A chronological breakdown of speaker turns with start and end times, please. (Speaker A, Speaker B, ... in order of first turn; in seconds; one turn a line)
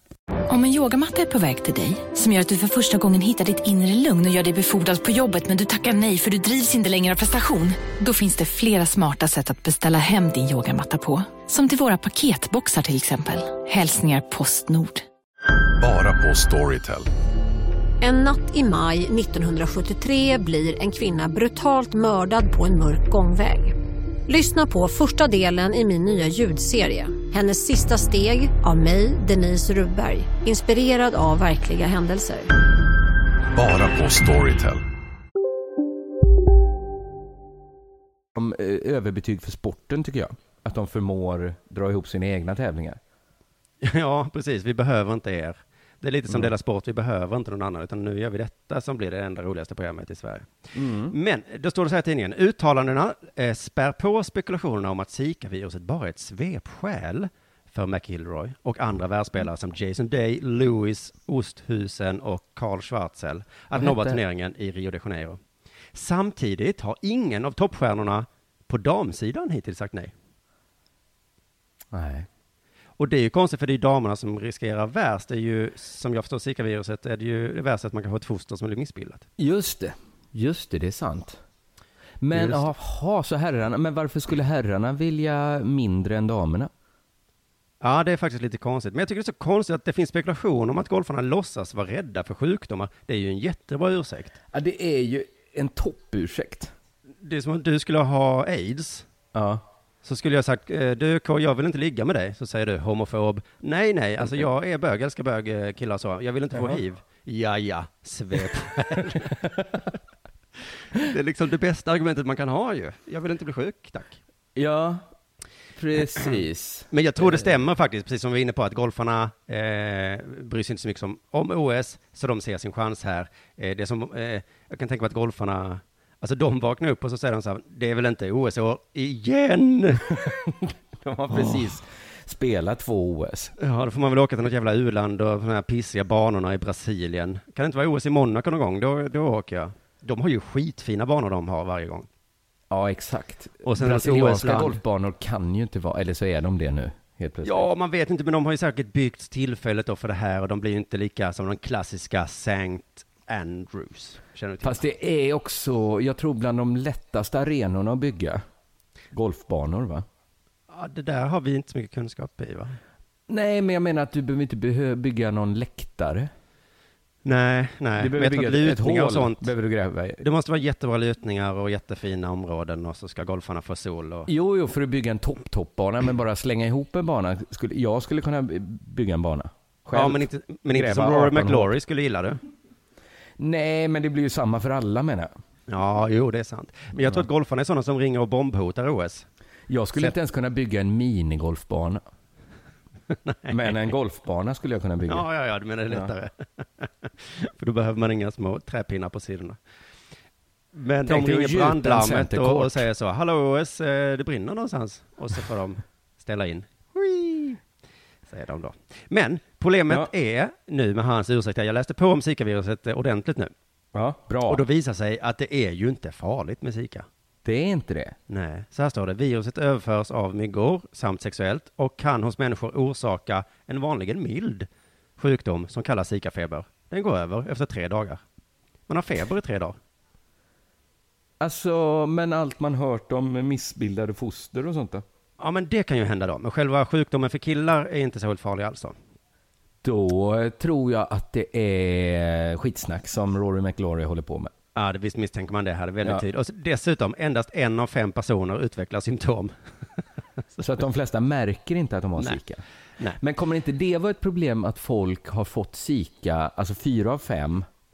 Speaker A: 0.5-15.1
Speaker B: 15.8-17.1
Speaker C: 18.0-23.8
Speaker C: 24.3-32.5
Speaker B: 33.5-34.8
Speaker D: 38.4-43.0
Speaker E: 43.8-65.4
Speaker D: 50.7-51.1
Speaker D: 63.8-64.2
Speaker E: 65.9-70.1
Speaker D: 71.9-72.3
Speaker E: 73.0-79.3
Speaker D: 79.4-81.4
Speaker D: 82.2-86.7
Speaker E: 82.3-82.7
Speaker E: 87.8-94.4
Speaker D: 94.5-96.7
Speaker E: 97.2-99.1
Speaker D: 99.3-99.6
Speaker E: 100.0-109.4
Speaker D: 106.5-106.8
Speaker E: 111.0-114.2
Speaker D: 114.6-115.1
Speaker D: 115.8-117.5
Speaker E: 116.9-130.1
Speaker D: 130.2-133.5
Speaker E: 131.3-131.7
Speaker E: 133.6-142.1
Speaker D: 142.7-147.7
Speaker E: 143.7-144.8
Speaker E: 147.4-154.8
Speaker D: 154.6-158.4
Speaker D: 159.1-160.1
Speaker E: 160.7-162.8
Speaker D: 163.3-166.3
Speaker E: 167.2-169.5
Speaker D: 168.0-170.2
Speaker E: 170.2-174.3
Speaker D: 174.3-181.7
Speaker E: 179.9-182.4
Speaker D: 183.4-185.3
Speaker E: 185.7-189.3
Speaker D: 189.7-192.0
Speaker E: 193.3-193.8
Speaker D: 193.5-195.3
Speaker E: 195.1-199.6
Speaker E: 200.7-207.6
Speaker D: 201.1-202.9
Speaker E: 208.3-213.5
Speaker D: 213.9-214.7
Speaker E: 214.5-217.1
Speaker D: 217.4-218.2
Speaker E: 218.3-224.7
Speaker E: 225.2-228.2
Speaker E: 228.9-229.8
Speaker D: 231.4-235.0
Speaker E: 235.4-239.0
Speaker D: 239.8-244.5
Speaker E: 244.8-249.5
Speaker D: 250.6-252.6
Speaker D: 253.2-257.7